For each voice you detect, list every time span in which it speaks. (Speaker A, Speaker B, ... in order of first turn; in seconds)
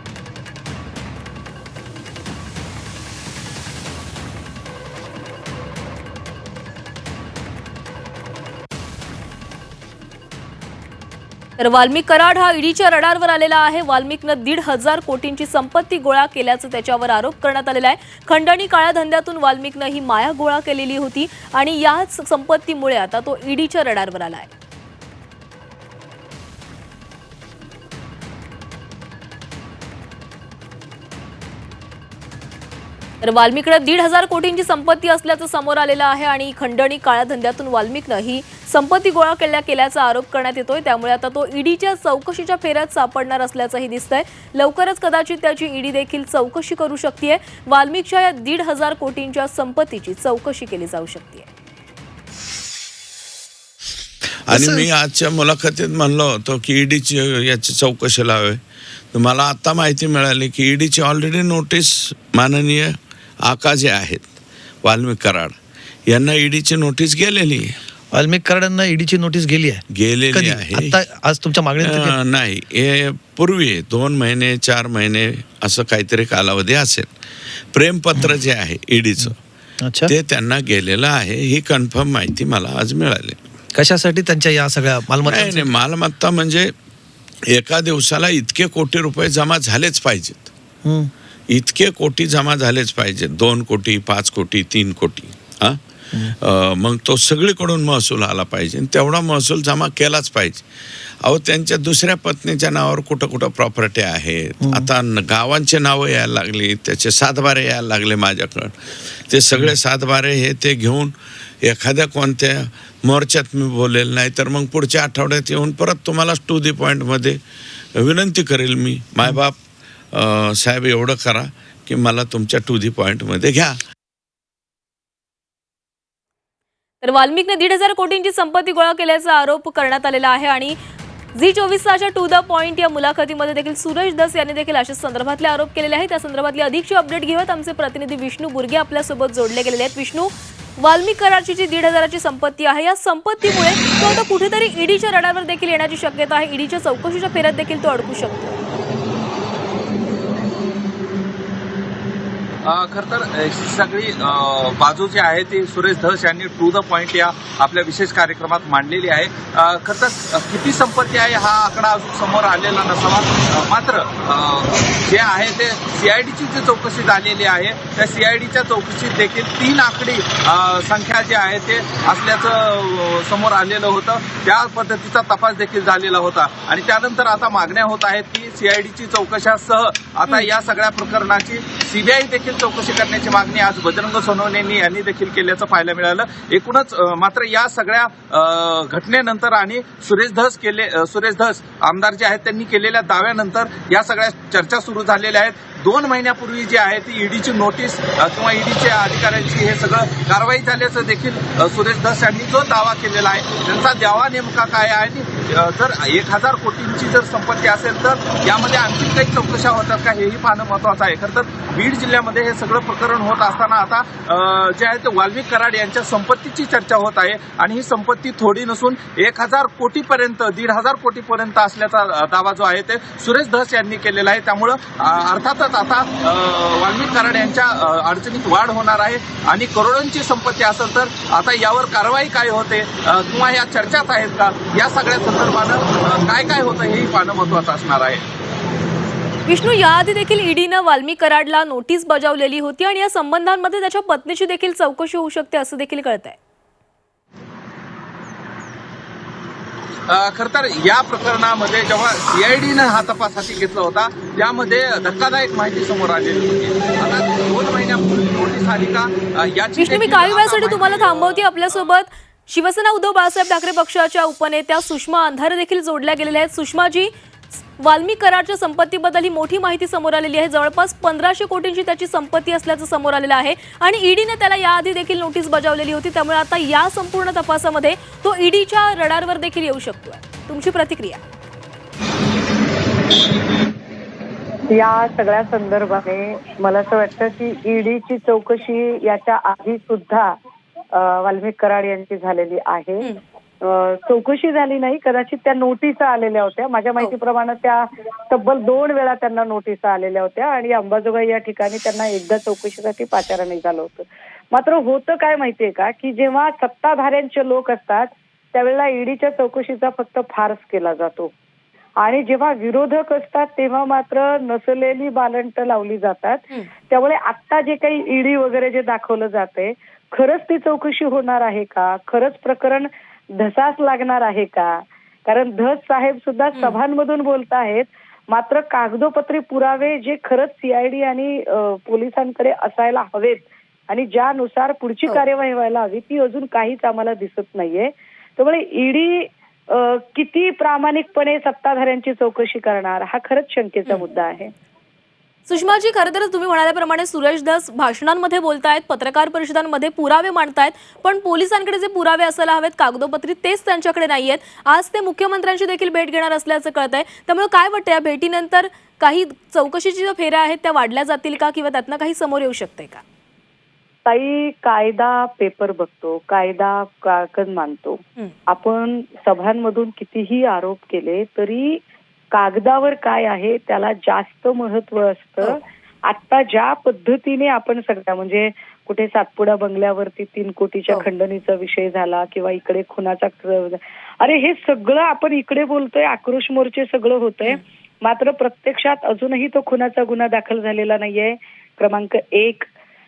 Speaker A: 11.6-24.5, 33.2-51.5, 127.0-130.8, 131.4-148.6, 239.5-246.4, 259.8-281.2, 345.5-363.0
Speaker B: 54.5-58.6, 59.1-65.5, 66.1-67.8, 69.9-71.0, 71.8-77.1, 77.7-79.4, 80.1-83.4, 85.2-86.7, 87.5-90.5, 91.5-100.6, 101.2-117.4, 118.0-119.6, 120.1-123.8
Speaker C: 68.1-72.1, 79.8-80.1, 83.8-85.7, 90.8-91.1
Speaker D: 152.6-238.2, 250.1-261.4
Speaker E: 284.7-290.3, 290.9-311.3, 312.0-344.5, 364.1-371.8, 372.3-392.7